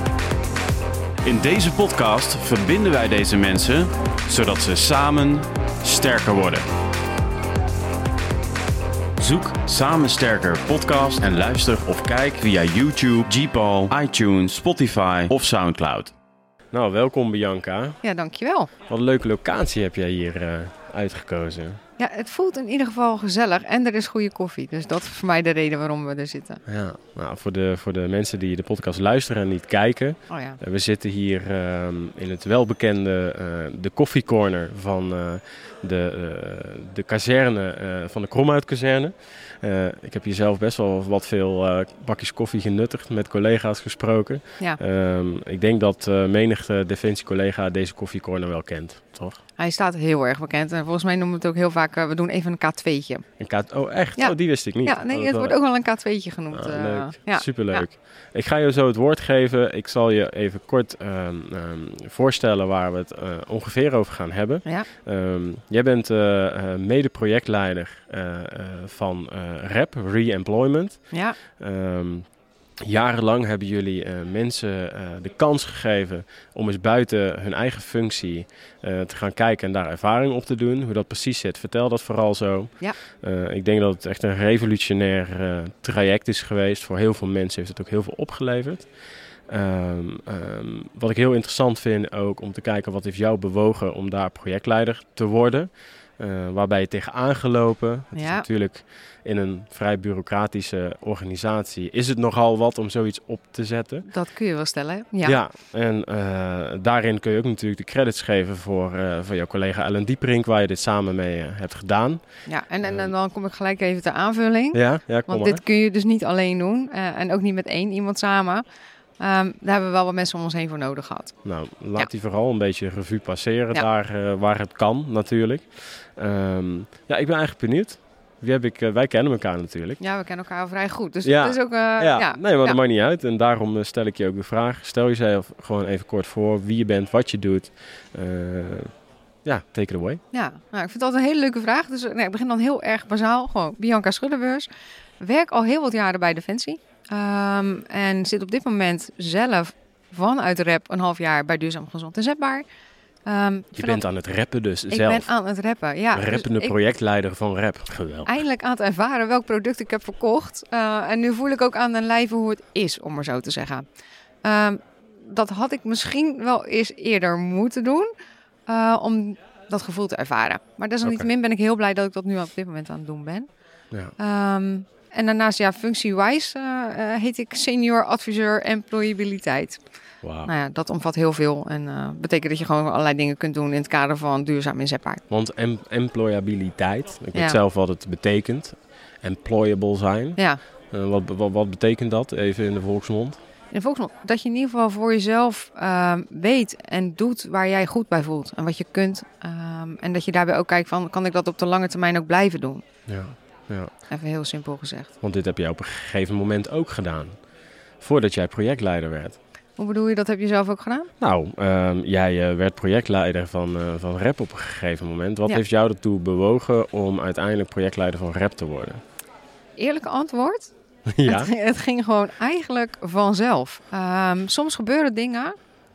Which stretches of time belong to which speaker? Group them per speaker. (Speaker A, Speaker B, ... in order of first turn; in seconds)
Speaker A: 1.2-6.7, 9.2-16.1
Speaker B: 16.7-18.0, 18.9-21.8, 26.6-49.4, 53.4-55.6, 56.5-71.0, 71.6-72.2, 72.8-88.8, 89.5-104.1, 105.2-112.2, 112.8-113.1, 114.7-115.6, 121.4-130.0, 131.2-138.9, 139.4-140.2, 153.8-155.3, 156.1-158.4, 180.2-180.5, 185.3-190.4, 190.9-193.4, 203.1-203.9, 205.2-207.3, 208.0-209.4, 211.2-219.0, 221.1-221.5
Speaker C: 18.0-18.7, 22.0-26.6, 30.3-30.6, 49.6-53.2, 54.2-57.9, 71.1-71.4, 98.1-98.5, 104.1-105.4, 112.5-118.6, 119.2-121.3, 130.0-132.8, 140.3-144.7, 145.2-152.6, 153.2-154.0, 154.9-156.8, 158.2-163.8, 164.4-168.1, 168.7-173.5, 174.2-179.8, 180.4-185.2, 193.7-202.8, 204.1-205.1, 209.8-211.1, 219.8-220.7, 221.2-225.6